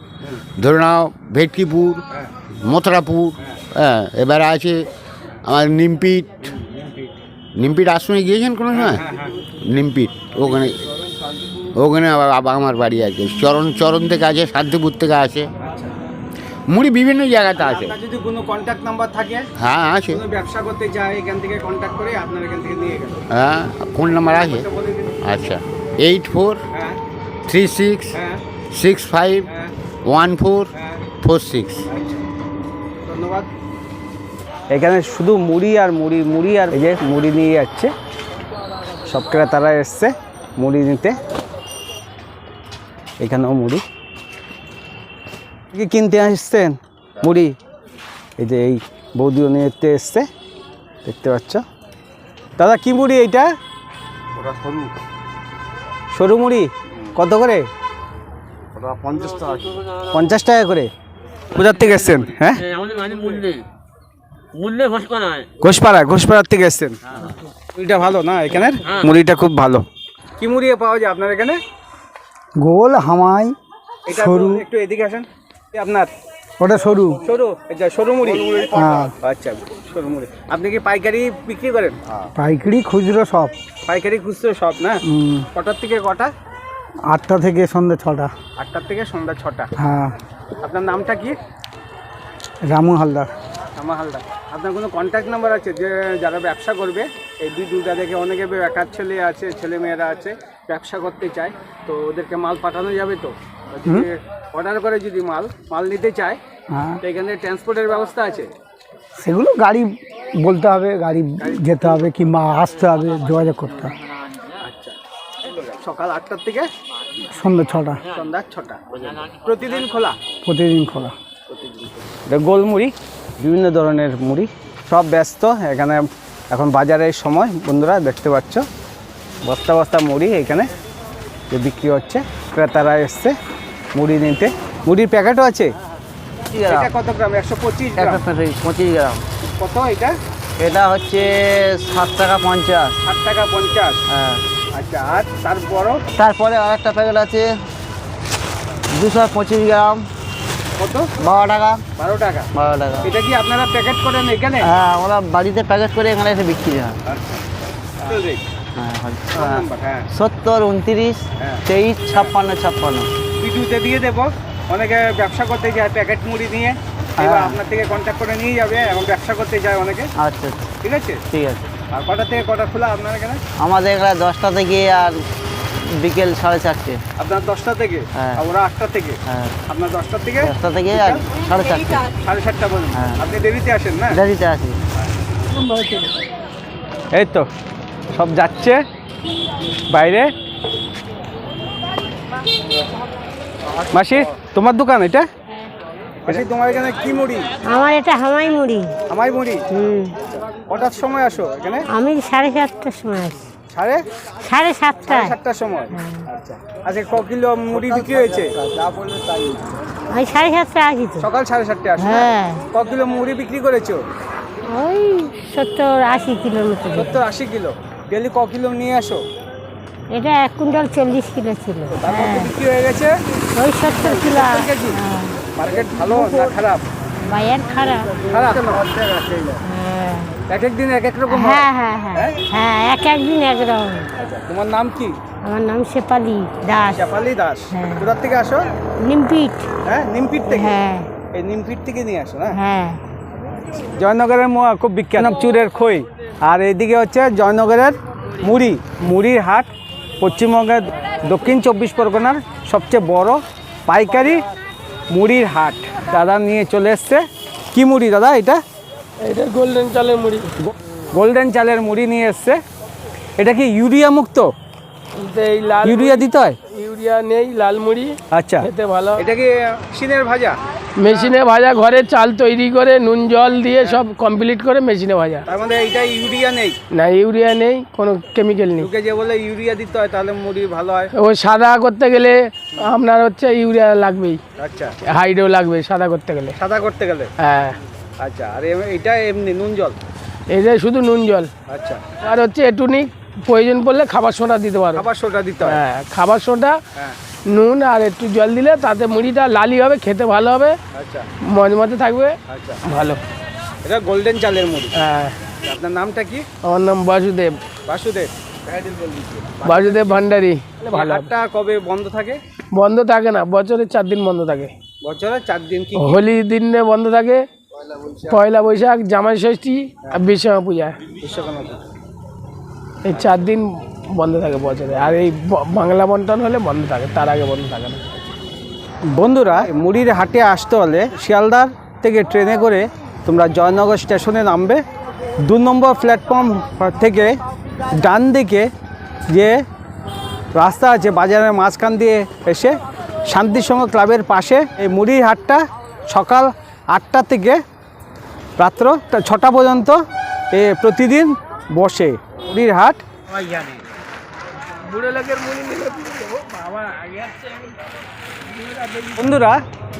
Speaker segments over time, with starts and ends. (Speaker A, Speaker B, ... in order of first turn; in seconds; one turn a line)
Speaker A: 0.6-2.0
Speaker A: 2.6-4.9
Speaker A: 5.5-6.5
Speaker B: 6.5-7.2
Speaker A: 7.6-9.0
Speaker B: 8.7-9.4
Speaker A: 9.6-10.8
Speaker B: 10.4-11.7
Speaker A: 11.8-15.5
Speaker B: 15.6-15.9
Speaker A: 16.7-17.9
Speaker B: 17.6-19.5
Speaker A: 19.6-20.2
Speaker B: 20.1-23.2
Speaker A: 23.3-24.7
Speaker B: 24.4-25.2
Speaker A: 25.2-26.6
Speaker B: 26.7-27.0
Speaker A: 27.5-28.1
Speaker B: 28.1-28.4
Speaker A: 28.7-29.5
Speaker B: 29.4-29.7
Speaker A: 30.1-30.7
Speaker B: 30.7-31.0
Speaker A: 31.2-31.9
Speaker B: 31.9-32.2
Speaker B: 33.0-33.5
Speaker B: 34.7-37.9
Speaker B: 39.1-41.2
Speaker B: 43.2-43.8
Speaker B: 45.7-47.6
Speaker B: 48.4-50.3
Speaker B: 51.0-51.6
Speaker B: 52.6-53.5
Speaker B: 56.1-57.6
Speaker B: 60.1-60.9
Speaker B: 61.5-62.6
Speaker B: 65.6-67.0
Speaker B: 67.8-69.8
Speaker B: 70.4-71.6
Speaker C: 72.6-73.5
Speaker B: 74.1-76.1
Speaker C: 74.1-74.6
Speaker C: 76.6-77.2
Speaker B: 77.2-78.7
Speaker C: 78.7-79.1
Speaker B: 79.2-82.0
Speaker C: 82.4-83.5
Speaker B: 83.9-85.0
Speaker C: 85.1-85.4
Speaker B: 85.5-86.3
Speaker C: 87.1-88.3
Speaker B: 88.6-89.7
Speaker C: 89.8-90.1
Speaker B: 90.6-91.4
Speaker C: 92.7-93.3
Speaker B: 93.8-106.4
Speaker C: 106.7-107.0
Speaker B: 107.0-108.5
Speaker C: 109.2-113.9
Speaker B: 111.4-112.1
Speaker B: 114.6-115.0
Speaker B: 115.5-116.7
Speaker C: 117.3-118.0
Speaker B: 118.0-120.2
Speaker C: 120.5-121.1
Speaker B: 122.2-128.7
Speaker B: 129.4-130.7
Speaker B: 131.5-133.3
Speaker B: 133.9-135.7
Speaker D: 136.5-136.9
Speaker B: 136.7-138.2
Speaker D: 138.0-139.2
Speaker B: 139.4-140.2
Speaker D: 140.6-143.0
Speaker B: 143.0-144.0
Speaker D: 144.1-144.4
Speaker B: 144.8-146.0
Speaker D: 146.1-147.5
Speaker D: 148.9-150.0
Speaker B: 150.8-151.1
Speaker D: 151.2-151.8
Speaker B: 152.0-152.5
Speaker D: 152.5-153.1
Speaker B: 153.0-154.7
Speaker D: 154.6-157.0
Speaker B: 157.1-157.4
Speaker B: 158.0-158.4
Speaker D: 158.8-163.1
Speaker B: 159.3-160.1
Speaker B: 161.4-162.3
Speaker B: 163.4-170.1
Speaker D: 167.2-167.6
Speaker D: 170.2-170.7
Speaker B: 170.8-171.2
Speaker D: 171.3-171.7
Speaker B: 171.9-173.4
Speaker D: 173.6-175.2
Speaker D: 176.0-177.0
Speaker B: 177.2-181.3
Speaker D: 178.2-178.4
Speaker D: 179.3-179.5
Speaker D: 180.4-182.1
Speaker B: 182.2-184.2
Speaker D: 182.9-183.2
Speaker D: 184.1-184.8
Speaker B: 187.1-187.5
Speaker B: 188.1-188.8
Speaker B: 189.9-190.3
Speaker B: 193.9-195.3
Speaker B: 196.3-197.5
Speaker E: 197.6-199.0
Speaker B: 199.1-199.7
Speaker E: 199.7-200.2
Speaker B: 200.3-201.9
Speaker E: 201.9-203.4
Speaker B: 203.7-204.1
Speaker E: 204.4-205.4
Speaker B: 205.0-208.6
Speaker E: 205.9-206.3
Speaker D: 207.7-209.7
Speaker E: 210.1-211.3
Speaker B: 211.2-214.0
Speaker E: 212.0-212.7
Speaker E: 214.7-217.2
Speaker B: 216.9-219.2
Speaker E: 220.1-222.5
Speaker B: 221.9-223.1
Speaker E: 223.6-225.4
Speaker B: 223.9-225.0
Speaker B: 225.6-226.8
Speaker E: 227.2-228.5
Speaker B: 228.3-228.9
Speaker E: 229.6-230.4
Speaker B: 230.5-232.4
Speaker E: 231.3-234.1
Speaker B: 234.2-235.2
Speaker E: 235.4-237.1
Speaker B: 236.9-238.7
Speaker E: 237.7-238.2
Speaker E: 239.0-239.7
Speaker B: 239.8-240.8
Speaker E: 240.5-241.1
Speaker B: 241.3-242.6
Speaker E: 242.5-243.0
Speaker B: 244.0-249.7
Speaker B: 250.2-254.4
Speaker B: 255.1-258.6
Speaker F: 259.2-260.5
Speaker B: 260.6-262.6
Speaker B: 263.4-264.5
Speaker F: 265.2-269.2
Speaker B: 265.8-266.6
Speaker B: 268.3-271.4
Speaker F: 271.0-275.5
Speaker B: 275.5-276.8
Speaker F: 276.9-278.9
Speaker B: 278.8-281.1
Speaker F: 281.2-284.4
Speaker B: 284.6-284.9
Speaker F: 285.1-286.6
Speaker B: 286.6-287.3
Speaker F: 287.4-287.8
Speaker B: 288.2-290.0
Speaker F: 290.5-291.5
Speaker B: 291.7-292.2
Speaker F: 292.2-295.1
Speaker B: 294.9-295.8
Speaker F: 295.6-296.8
Speaker F: 297.5-300.8
Speaker B: 300.9-301.3
Speaker F: 301.4-303.2
Speaker B: 302.5-302.8
Speaker B: 303.9-304.9
Speaker F: 304.9-305.4
Speaker B: 305.6-306.5
Speaker F: 306.6-307.6
Speaker B: 307.9-310.3
Speaker F: 309.6-311.3
Speaker B: 310.9-312.4
Speaker F: 312.7-314.7
Speaker B: 315.0-316.2
Speaker F: 316.0-317.4
Speaker B: 318.0-318.3
Speaker F: 318.2-321.0
Speaker B: 321.1-321.8
Speaker F: 323.0-328.3
Speaker B: 329.1-334.8
Speaker B: 335.4-337.4
Speaker B: 337.9-338.7
Speaker B: 339.3-339.6
Speaker B: 340.6-342.8
Speaker B: 343.3-347.6
Speaker B: 348.6-350.0
Speaker B: 350.5-353.0
Speaker F: 353.3-353.8
Speaker F: 354.8-357.9
Speaker F: 358.5-359.4
Speaker B: 359.2-359.6